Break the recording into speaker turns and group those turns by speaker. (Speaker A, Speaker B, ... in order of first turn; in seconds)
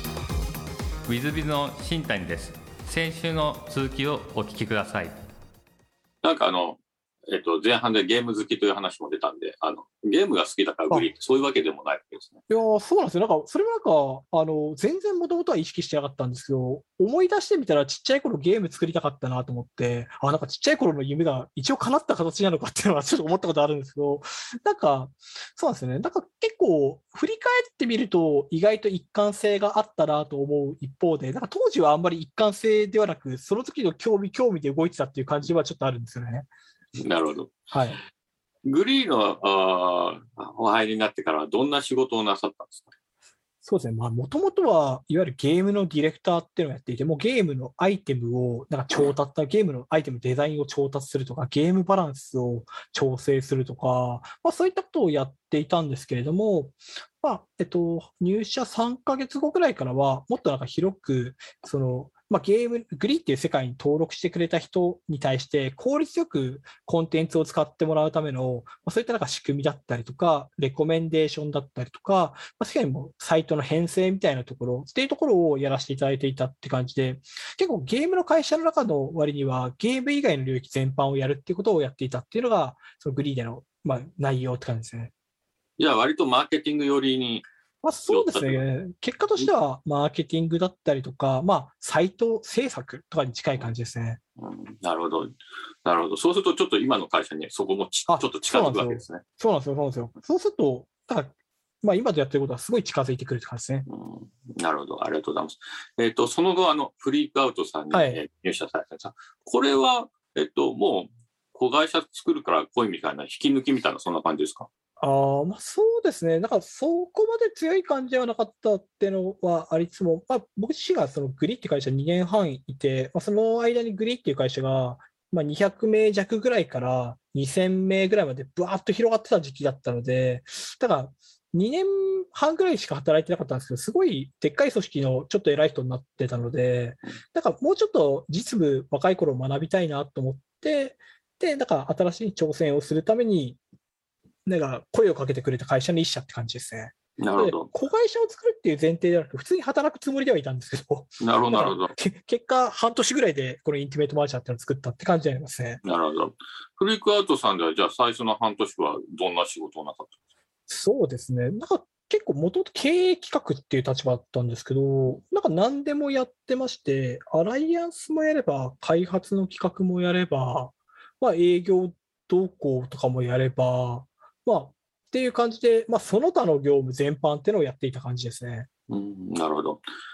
Speaker A: 1.1-5.2
Speaker B: 6.2-12.4, 37.0-37.6, 38.7-42.9, 85.8-87.5, 88.1-88.6, 94.4-99.2, 103.9-114.7, 147.2-147.7, 151.2-151.9, 155.8-160.1, 178.9-179.8
Speaker C: 12.5-36.5, 37.7-38.0, 43.6-85.1, 87.8-94.2, 98.1-103.9, 107.9-108.2, 115.0-143.6, 144.5-155.8, 160.7-178.7